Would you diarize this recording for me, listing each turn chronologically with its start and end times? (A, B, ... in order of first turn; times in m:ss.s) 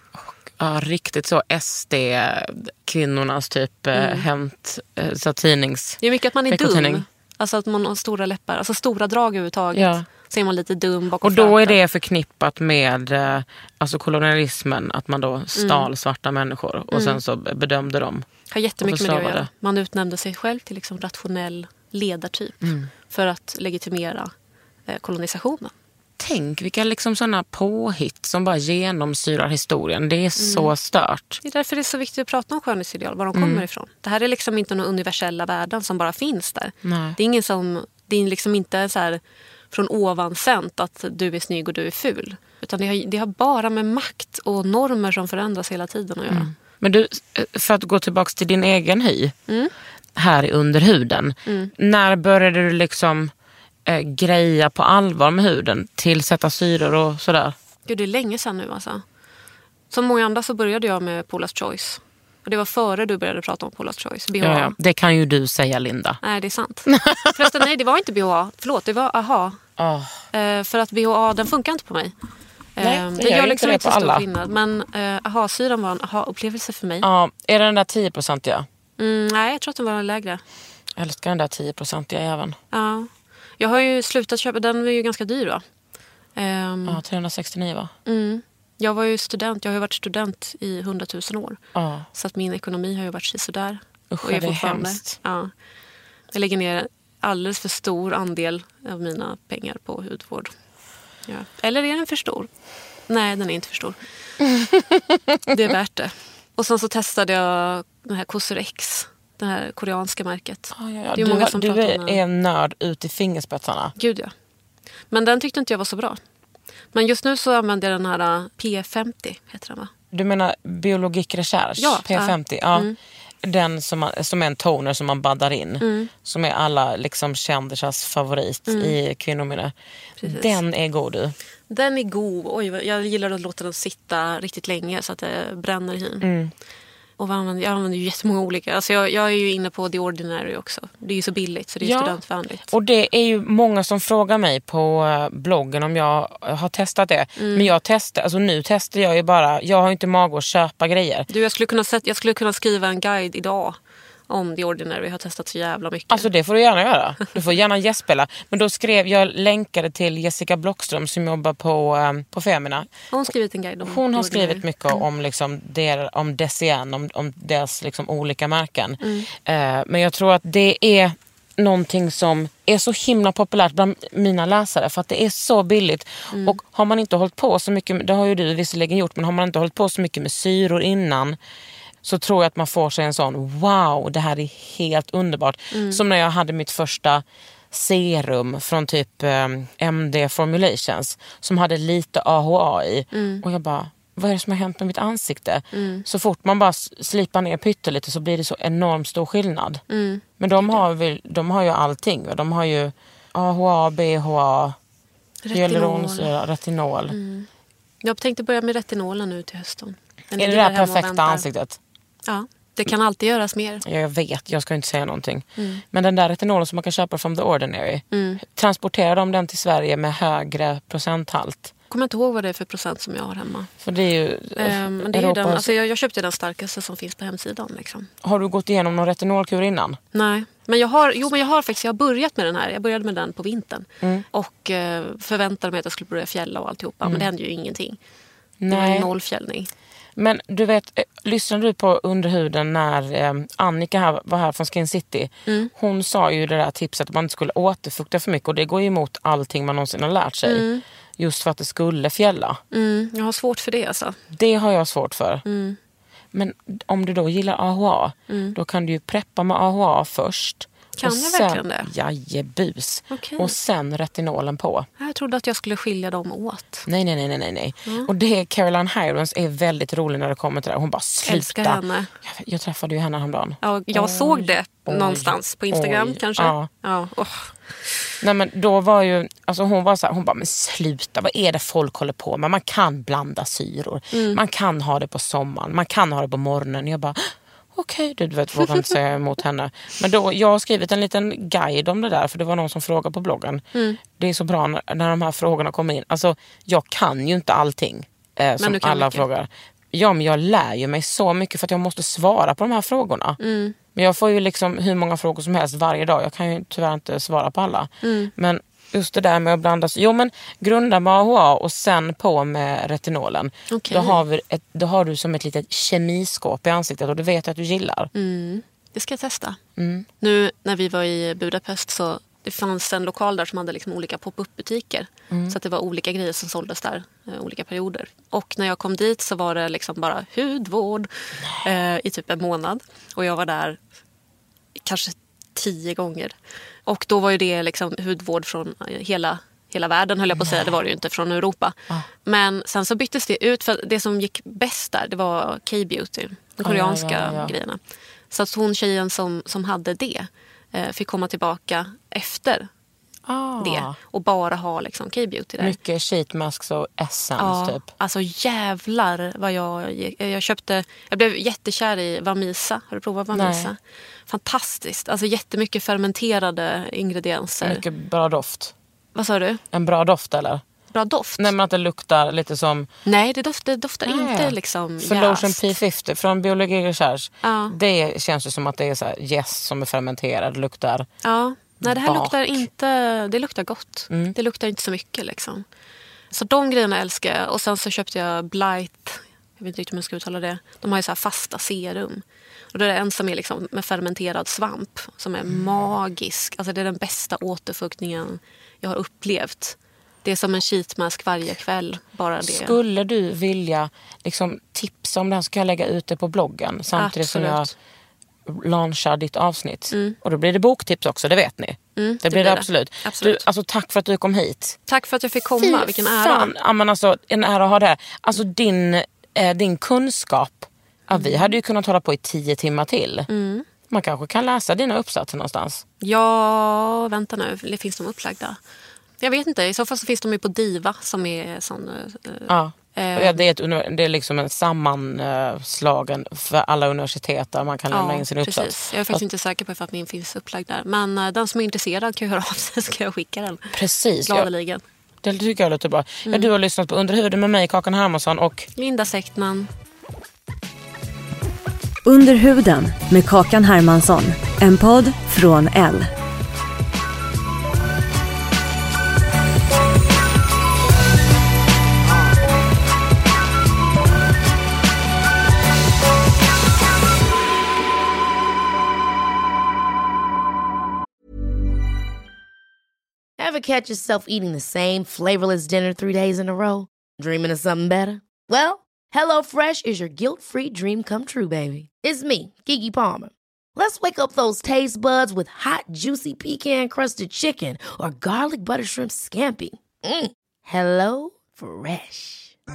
0:00.2-0:07.0 A
0:03.9-0:04.3 B
0:06.0-0:11.8 B
0:09.7-0:10.1 A
0:11.2-0:18.3 A
0:15.6-0:15.9 B
0:16.9-0:17.2 B
0:18.5-0:24.3 B
0:18.8-0:19.5 A
0:22.6-0:22.9 A
0:24.9-0:25.7 B
0:26.2-0:31.4 A
0:30.4-0:30.7 B
0:31.4-0:39.2 B
0:33.4-0:33.7 A
0:36.8-0:37.2 A
0:39.7-0:46.5 B
0:46.3-0:49.4 A
0:49.5-0:49.7 B
0:50.2-0:53.3 A
0:51.5-0:51.7 B
0:53.9-0:57.6 A
0:57.9-0:59.0 B
0:59.9-1:04.8 B
1:04.4-1:06.2 A
1:06.2-1:09.6 B
1:06.9-1:07.5 A
1:09.8-1:10.2 A
1:10.3-1:12.1 B
1:12.8-1:17.1 B
1:12.8-1:14.2 A
1:17.0-1:18.7 A
1:19.0-1:20.4 B
1:21.0-1:22.6 A
1:22.7-1:25.6 B
1:26.4-1:27.0 B
1:26.9-1:27.9 A
1:28.1-1:31.6 B
1:31.8-1:32.1 A
1:32.1-1:35.5 B
1:34.1-1:35.2 A
1:36.3-1:40.5 B
1:41.2-1:42.5 B
1:43.1-1:44.0 B
1:44.5-1:45.4 A
1:45.5-1:52.2 B
1:50.7-1:53.9 A
1:54.0-1:54.3 B
1:55.1-1:56.2 B
1:56.9-1:59.9 B
2:00.1-2:02.9 A
2:01.8-2:03.0 B
2:03.4-2:09.7 A
2:05.8-2:06.1 B
2:08.7-2:09.0 B
2:10.2-2:10.6 B
2:10.2-2:11.4 A
2:11.7-2:16.3 B
2:16.2-2:16.5 A
2:17.2-2:22.7 B
2:21.8-2:31.3 A
2:27.4-2:27.7 B
2:31.3-2:33.8 B
2:34.3-2:36.3 B
2:36.1-2:42.9 A
2:43.1-2:45.0 B
2:43.8-3:01.4 A
2:49.0-2:49.3 B
2:56.3-2:56.6 B
3:02.0-3:19.8 A
3:05.7-3:06.0 B
3:13.1-3:13.4 B
3:15.7-3:16.0 B
3:19.9-3:20.8 B
3:20.4-3:24.8 A
3:25.4-3:26.3 B
3:25.5-3:27.2 A
3:27.1-3:27.5 B
3:28.0-3:31.5 B
3:30.4-3:31.8 A
3:32.3-3:33.8 B
3:33.8-3:41.7 A
3:35.6-3:35.8 B
3:38.1-3:38.4 B
3:41.9-3:43.7 B
3:43.8-3:45.7 A
3:44.6-3:48.1 B
3:48.2-3:50.0 A
3:50.1-3:58.0 B
3:58.6-3:59.1 A
3:58.7-3:59.7 B
4:00.2-4:10.7 A
4:05.5-4:05.7 B
4:10.5-4:10.8 B
4:11.2-4:12.6 A
4:12.7-4:14.2 B
4:14.3-4:15.4 A
4:15.4-4:15.8 B
4:16.3-4:24.9 A
4:18.3-4:18.6 B
4:21.0-4:21.9 B
4:23.1-4:23.5 B
4:25.0-4:26.9 B
4:26.9-4:36.7 A
4:31.2-4:32.1 B
4:33.6-4:38.1 B
4:38.2-5:03.4 A
4:44.1-4:44.4 B
4:53.7-4:54.0 B
4:58.6-4:59.3 B
5:03.4-5:03.8 B
5:04.0-5:18.1 A
5:08.0-5:08.3 B
5:13.7-5:14.2 B
5:18.1-5:19.6 B
5:19.8-5:20.1 A
5:20.2-5:33.8 B
5:25.3-5:25.6 A
5:34.8-5:47.8 B
5:40.4-5:40.7 A
5:46.6-5:47.5 A
5:48.3-5:52.7 B
5:53.3-5:54.0 A
5:53.6-5:55.8 B
5:55.6-5:57.8 A
5:57.4-6:07.8 B
6:03.3-6:03.7 A
6:07.6-6:08.7 A
6:09.2-6:09.6 B
6:09.7-6:10.6 A
6:10.9-6:11.5 B
6:11.4-6:12.9 A
6:13.1-6:15.8 B
6:14.0-6:21.1 A
6:17.4-6:17.8 B
6:21.2-6:25.6 B
6:21.8-6:22.7 A
6:24.1-6:24.4 A
6:26.3-6:42.8 B
6:42.4-6:47.7 A
6:47.0-6:47.7 B
6:48.5-6:54.8 A
6:49.9-6:50.2 B
6:52.0-6:53.4 B
6:54.9-6:56.5 B
6:55.6-7:03.3 A
7:01.1-7:01.6 B
7:03.3-7:03.7 B
7:03.9-7:05.8 A
7:06.0-7:08.6 B
7:09.2-7:13.4 B
7:12.5-7:19.2 A
7:17.9-7:24.8 B
7:23.7-7:24.5 A
7:25.2-7:28.7 A
7:28.8-7:29.7 B
7:32.0-7:36.1 C
7:53.4-8:12.6 D